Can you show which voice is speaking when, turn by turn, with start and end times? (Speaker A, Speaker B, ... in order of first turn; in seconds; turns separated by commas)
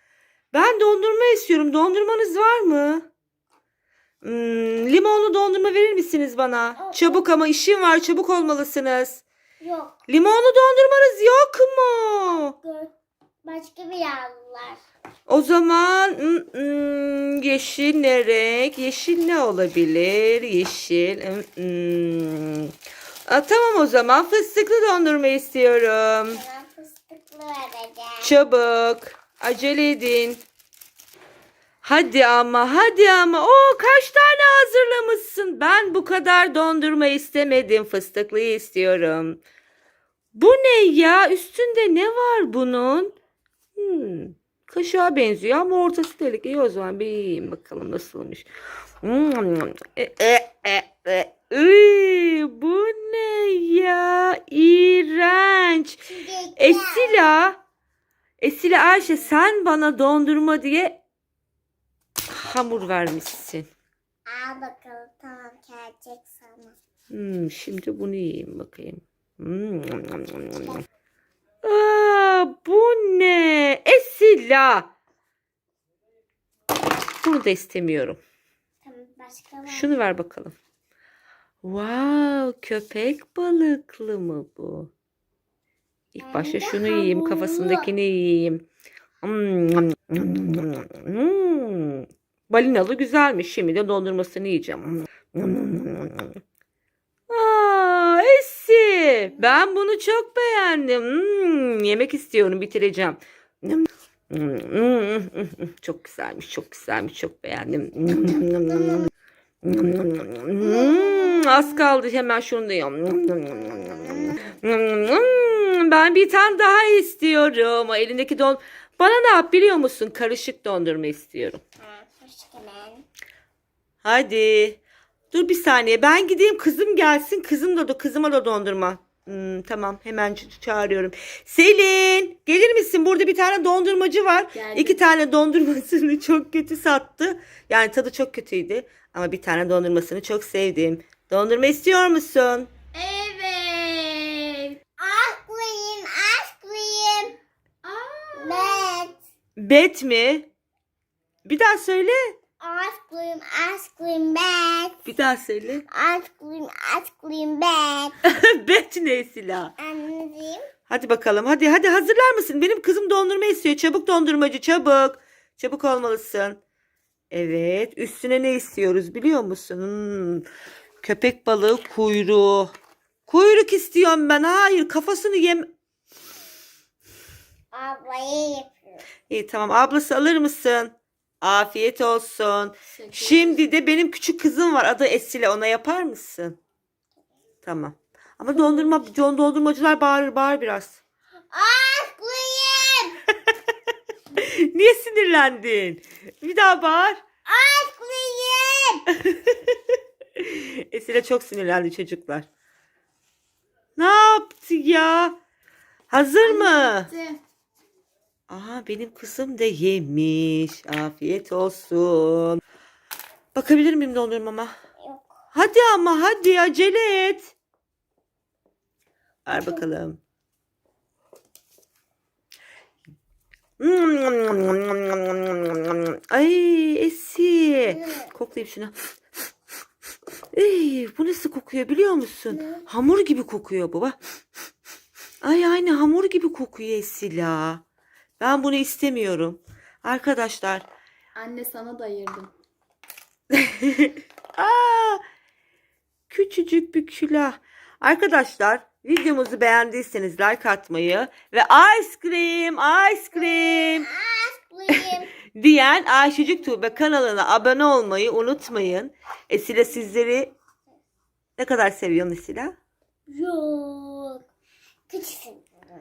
Speaker A: 0.5-3.1, Speaker A: 4.2-9.2, Speaker B: 6.8-7.2, Speaker B: 9.6-10.0, Speaker A: 10.1-12.5, Speaker B: 12.3-12.9, Speaker B: 13.4-14.8, Speaker A: 15.3-22.7, Speaker A: 23.3-26.4, Speaker B: 26.3-28.4, Speaker A: 28.2-30.4, Speaker A: 31.8-39.4, Speaker A: 40.3-43.1, Speaker A: 43.8-48.5, Speaker A: 49.0-56.0, Speaker B: 56.0-57.4, Speaker A: 56.6-57.6, Speaker A: 58.4-61.0, Speaker A: 62.3-63.7, Speaker B: 64.3-66.8, Speaker A: 67.1-70.7, Speaker A: 71.6-74.9, Speaker A: 77.2-78.2, Speaker B: 78.8-80.0, Speaker A: 79.7-80.5, Speaker A: 81.6-84.9, Speaker A: 86.2-88.7, Speaker B: 86.2-87.9, Speaker A: 89.2-96.4, Speaker A: 97.3-109.1, Speaker A: 109.6-121.6, Speaker B: 110.7-111.5, Speaker B: 113.9-114.3, Speaker B: 121.8-123.0, Speaker A: 124.0-124.8, Speaker A: 125.3-142.7, Speaker C: 134.5-135.0, Speaker C: 142.9-144.8, Speaker B: 145.0-147.4, Speaker C: 147.8-149.0, Speaker B: 148.4-149.2, Speaker A: 149.6-150.5, Speaker A: 151.4-152.3, Speaker B: 152.6-155.0, Speaker A: 155.1-155.8, Speaker B: 155.9-158.2, Speaker A: 158.2-159.7, Speaker B: 159.8-160.7, Speaker A: 160.9-166.6, Speaker A: 167.3-170.5, Speaker A: 171.0-172.7, Speaker A: 173.3-175.7, Speaker B: 177.7-178.8, Speaker A: 179.3-186.6, Speaker C: 182.9-183.6, Speaker A: 187.6-191.0, Speaker C: 188.5-188.9, Speaker B: 191.5-193.2, Speaker A: 194.3-197.2, Speaker B: 197.5-199.1, Speaker A: 199.2-199.8, Speaker A: 200.4-202.5, Speaker A: 204.0-205.4, Speaker A: 206.1-207.1, Speaker C: 206.4-207.4, Speaker A: 208.5-212.6, Speaker A: 213.6-214.7, Speaker B: 215.0-215.4, Speaker A: 215.5-217.5, Speaker A: 219.5-220.2, Speaker A: 223.8-228.9, Speaker B: 227.9-228.3, Speaker A: 230.5-234.2, Speaker B: 232.5-232.8, Speaker A: 235.4-237.8, Speaker A: 238.4-240.9, Speaker C: 241.3-242.5, Speaker A: 243.5-245.2, Speaker A: 246.3-254.1, Speaker B: 253.4-255.3, Speaker A: 255.5-260.5, Speaker A: 261.6-262.8, Speaker B: 263.3-264.5, Speaker B: 265.1-265.7